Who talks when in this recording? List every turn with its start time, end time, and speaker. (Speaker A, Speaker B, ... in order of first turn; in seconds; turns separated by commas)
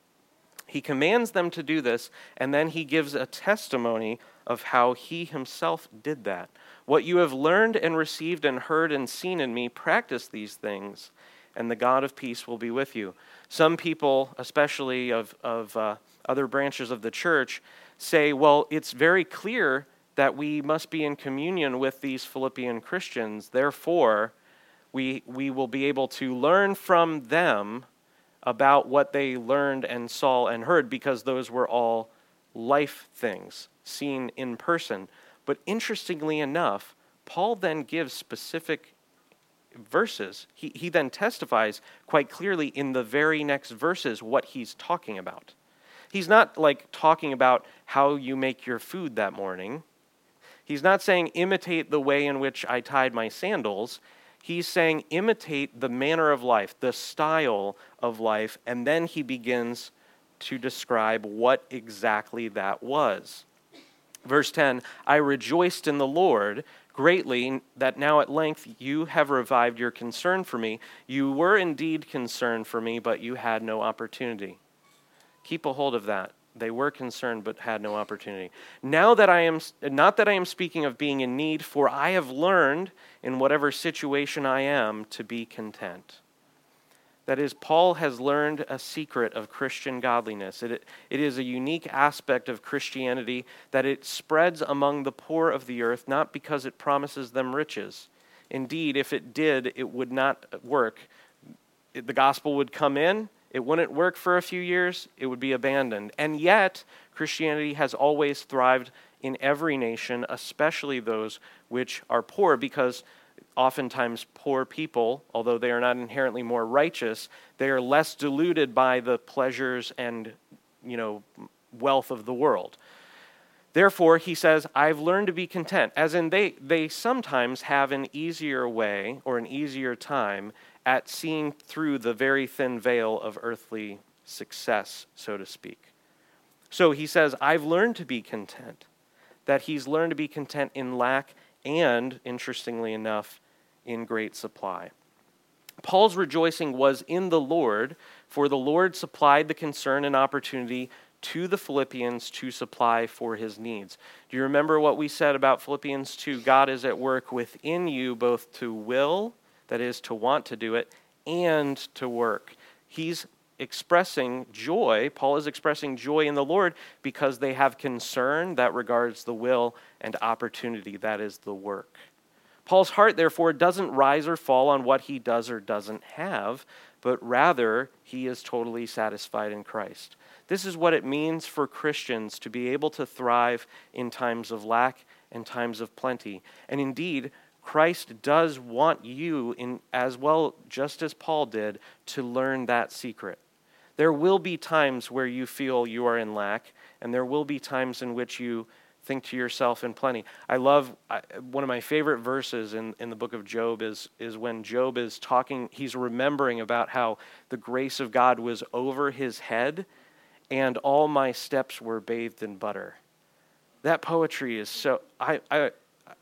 Speaker A: 0.7-24.3, Speaker A: 24.9-27.9, Speaker A: 28.4-38.9, Speaker A: 39.7-45.5, Speaker A: 46.1-49.9, Speaker A: 50.7-63.5, Speaker A: 64.2-74.6, Speaker A: 75.4-86.2, Speaker A: 87.3-101.1, Speaker A: 101.9-113.0, Speaker A: 113.6-122.8, Speaker A: 123.7-135.9, Speaker A: 136.7-138.9, Speaker A: 139.5-144.9, Speaker A: 145.8-172.0, Speaker A: 172.7-193.4, Speaker A: 194.0-209.9, Speaker A: 210.5-213.0, Speaker A: 213.8-215.7